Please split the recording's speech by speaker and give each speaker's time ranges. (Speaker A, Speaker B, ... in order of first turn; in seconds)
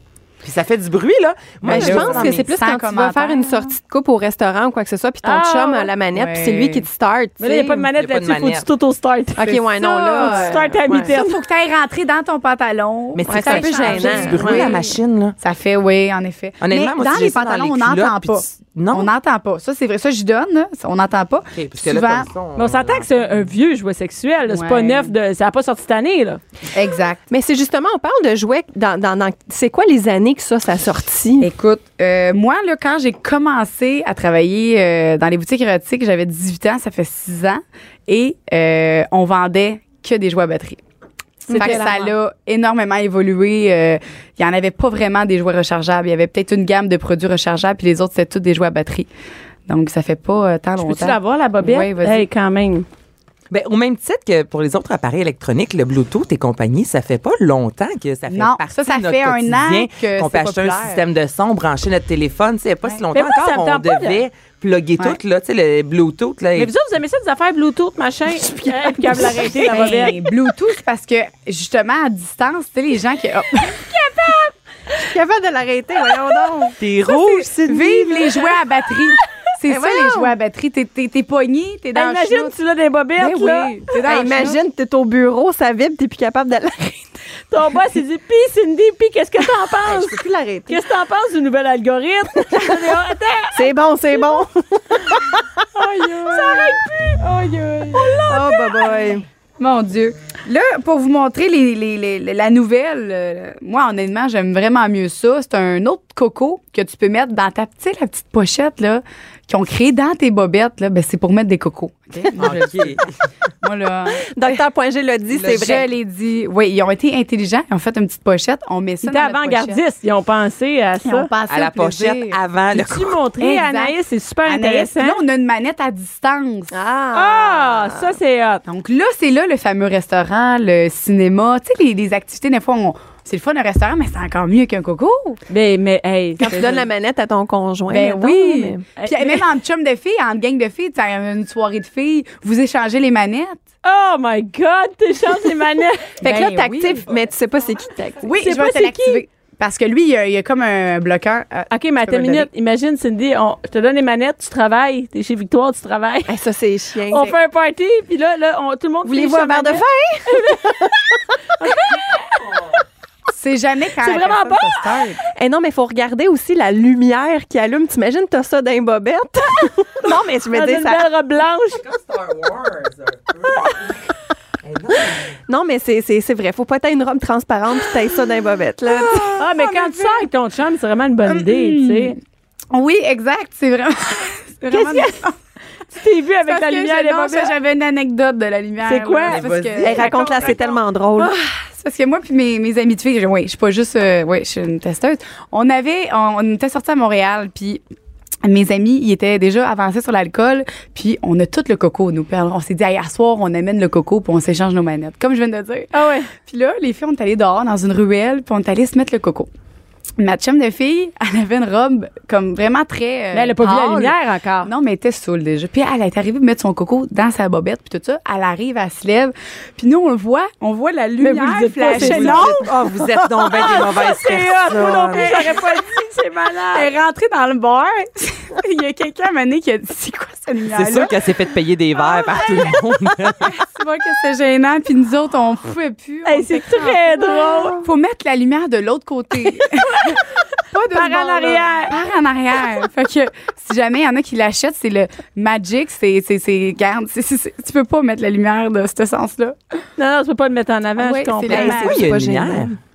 Speaker A: 0.4-2.4, 7.8-8.7, 13.1-15.4, 16.6-19.1, 21.6-23.4, 53.5-66.7, 76.8-78.3, 112.4-113.1, 115.3-115.8, 121.5-123.2, 162.4-162.7, 171.7-174.0, 174.6-175.3, 189.3-190.6, 221.9-225.4, 230.7-233.5, 251.6-252.8
Speaker B: 1.6-3.8, 6.1-6.9, 9.4-22.3, 24.5-25.1, 26.7-27.2, 31.4-40.8, 41.5-49.1, 49.7-52.3, 58.3-61.0, 69.2-73.9, 77.1-82.6, 83.2-84.6, 95.8-98.0, 99.6-113.1, 113.6-114.6, 115.4-119.8, 121.0-122.4, 123.4-126.7, 128.7-135.4, 137.9-143.6, 146.2-147.1, 148.2-152.5, 163.3-165.2, 178.9-180.3, 181.3-182.1, 182.7-185.4, 186.4-197.8, 198.4-209.5, 210.2-223.7, 224.7-225.6, 226.7-231.2, 233.4-249.6, 251.0-252.1
Speaker C: 1.7-7.8, 9.4-11.1, 13.3-14.8, 27.3-31.5, 41.5-42.1, 68.5-69.3, 75.0-76.8, 78.1-78.5, 79.7-80.3, 83.9-87.1, 89.8-90.8, 93.5-95.4, 98.0-99.2, 114.2-115.9, 126.7-128.1, 136.4-138.8, 146.2-148.3, 156.3-157.4, 159.1-161.0, 165.3-171.1, 175.5-179.4, 189.8-191.3, 251.5-252.8
Speaker D: 5.2-5.9, 7.4-11.4, 22.6-26.4, 41.5-42.1, 50.8-52.9, 63.1-64.2, 66.6-70.3, 73.8-74.5, 82.0-83.8, 87.5-93.6, 95.8-97.3, 97.9-99.0, 119.0-121.3, 122.7-125.2, 127.1-128.6, 135.5-136.8, 139.0-139.5, 143.8-146.3, 148.4-149.2, 151.7-156.3, 157.1-160.9, 161.6-162.4, 164.0-165.0, 170.5-171.8, 179.3-182.2, 184.7-185.3, 185.9-187.6, 188.8-189.5, 190.0-190.5, 205.9-206.3, 213.3-214.7, 221.2-222.7, 223.4-226.9, 236.2-237.9, 239.6-240.2, 240.9-242.0, 250.0-251.9